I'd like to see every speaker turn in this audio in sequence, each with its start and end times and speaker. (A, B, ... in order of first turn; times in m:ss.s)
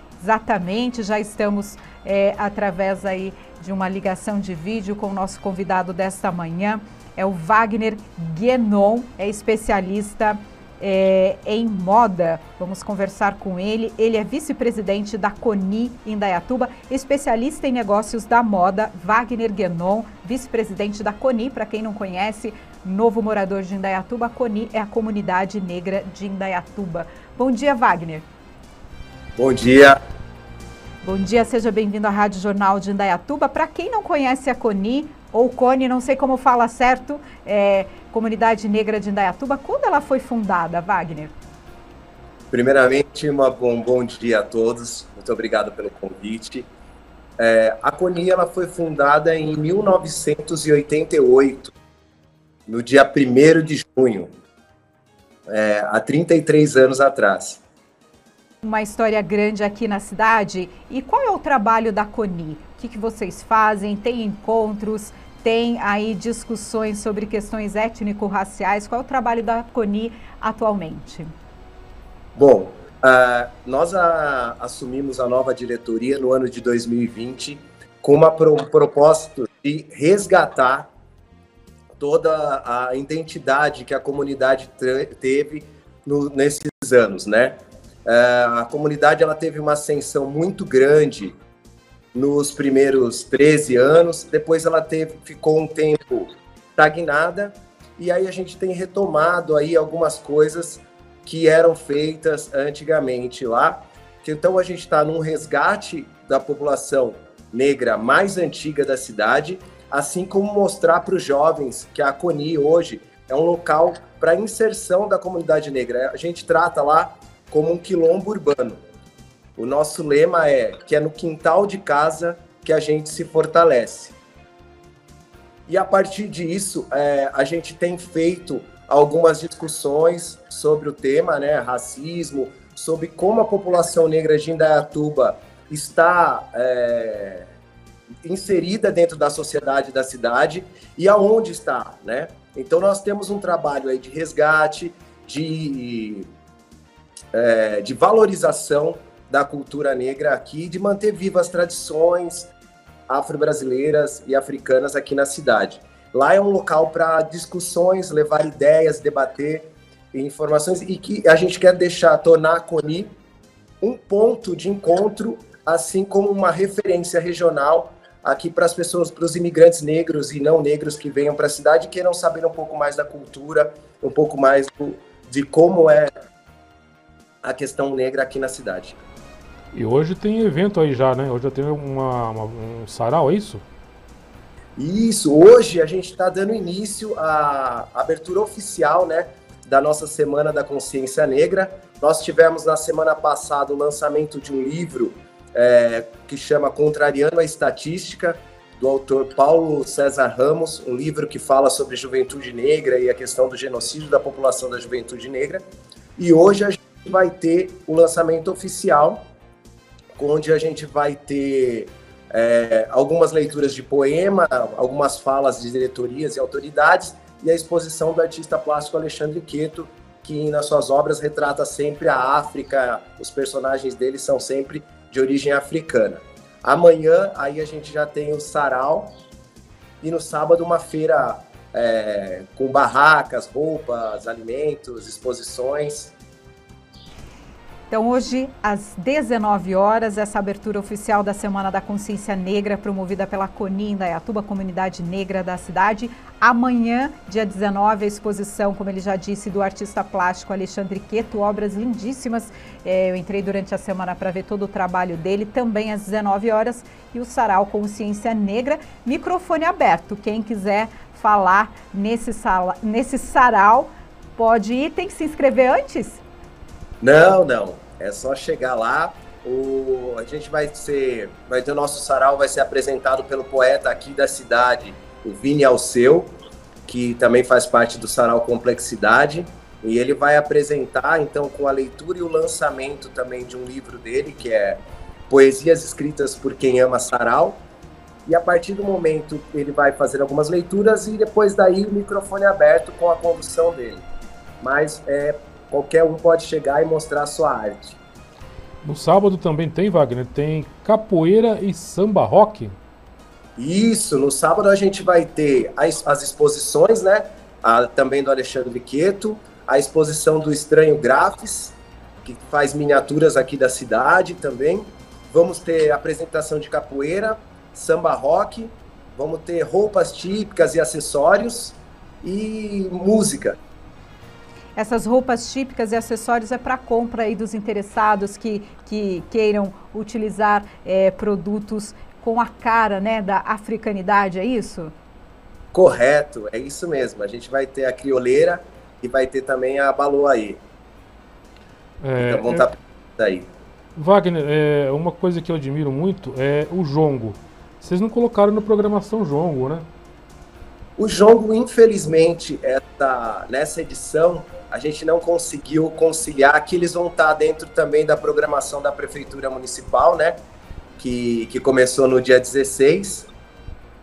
0:00.2-0:28.3 A
0:29.4-0:30.0 B
0:31.0-0:41.3 A
0:42.5-0:46.7 B
0:47.4-0:51.7 B
0:52.7-0:54.3 B
0:55.5-0:57.6 B
0:58.6-1:11.3 A
1:12.4-1:20.9 B
1:22.0-1:31.4 B
1:32.1-1:58.8 B
1:59.6-2:04.2 B
2:05.7-2:17.5 B
2:18.2-2:26.3 B
2:27.3-2:32.5 B
2:33.1-2:43.1 B
2:43.8-2:56.1 B
2:57.4-2:59.0 B
2:59.7-3:03.6 C
3:04.8-3:25.6 B
3:26.2-3:29.2 B
3:30.2-3:49.1 B
3:50.0-3:56.1 B
3:57.9-4:26.2 A
4:27.0-4:36.3 B
4:36.9-4:47.6 B
4:48.3-4:54.0 B
4:54.6-4:58.0 B
4:58.8-5:02.8 C
5:03.6-5:23.6 B
5:24.8-5:34.9 A
5:35.7-5:40.6 B
5:42.0-5:42.7 C
5:42.2-5:43.5 B
5:44.0-5:49.9 C
5:51.0-6:00.4 B
6:01.0-6:03.3 B